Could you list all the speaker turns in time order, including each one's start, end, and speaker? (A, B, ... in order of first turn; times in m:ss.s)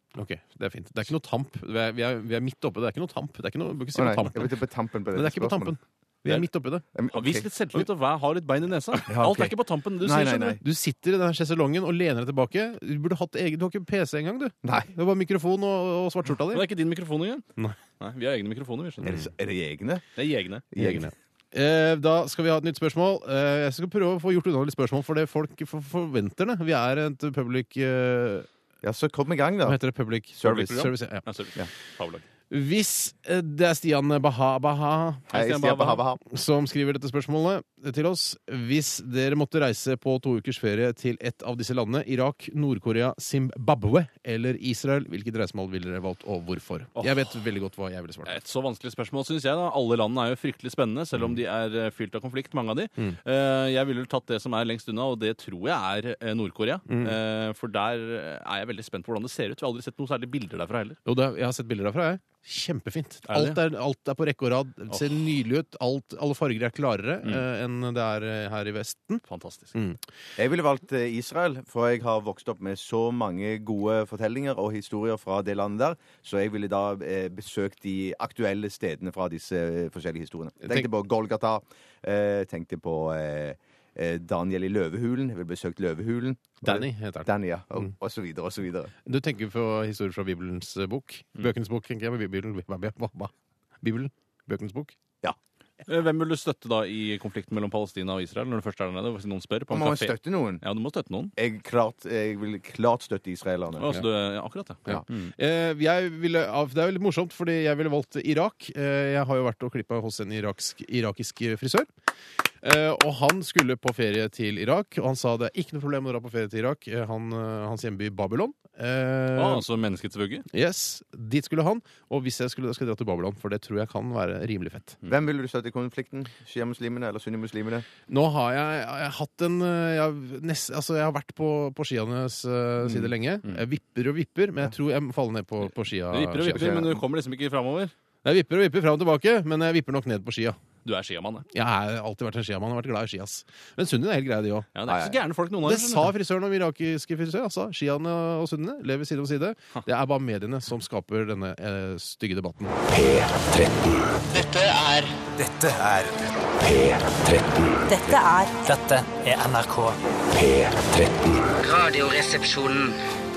0:00.1-0:04.5 A
0:03.9-0:05.7 B
0:05.1-0:06.8 A
0:06.9-0:07.5 B
0:07.1-0:10.6 C
0:09.1-0:10.6 B
0:10.6-0:16.7 A
0:14.6-0:14.9 B
0:16.5-0:17.4 C
0:18.0-0:19.2 C
0:19.0-0:20.0 B
0:20.2-0:20.6 C
0:20.7-0:21.1 B
0:20.8-0:28.5 A
0:28.8-0:29.8 B
0:29.6-0:31.2 A
0:30.4-0:30.9 B
0:30.5-0:32.2 C
0:32.5-0:35.3 A
0:35.3-0:36.2 B
0:35.3-0:36.0 C
0:36.2-0:48.4 A
0:47.0-0:47.2 C
0:48.2-1:01.0 C
0:56.9-0:57.2 A
1:01.0-1:10.0 A
1:03.3-1:03.6 C
1:09.2-1:09.7 C
1:10.4-1:28.9 B
1:20.6-1:20.9 A
1:26.6-1:27.3 A
1:29.0-1:35.0 A
1:35.9-1:41.3 C
1:39.7-1:40.6 B
1:41.4-1:43.9 B
1:43.8-1:45.3 C
1:44.9-1:51.9 A
1:52.6-1:59.6 A
1:59.4-2:00.4 C
2:00.5-2:05.0 A
2:05.0-2:07.8 B
2:08.1-2:16.8 A
2:16.1-2:17.9 C
2:16.5-2:16.9 B
2:18.2-2:20.6 A
2:20.8-2:21.4 C
2:21.5-2:24.7 A
2:24.7-2:26.1 C
2:24.9-2:25.1 B
2:25.6-2:32.8 A
2:34.3-2:36.2 D
2:37.8-2:40.0 D
2:41.5-2:43.0 D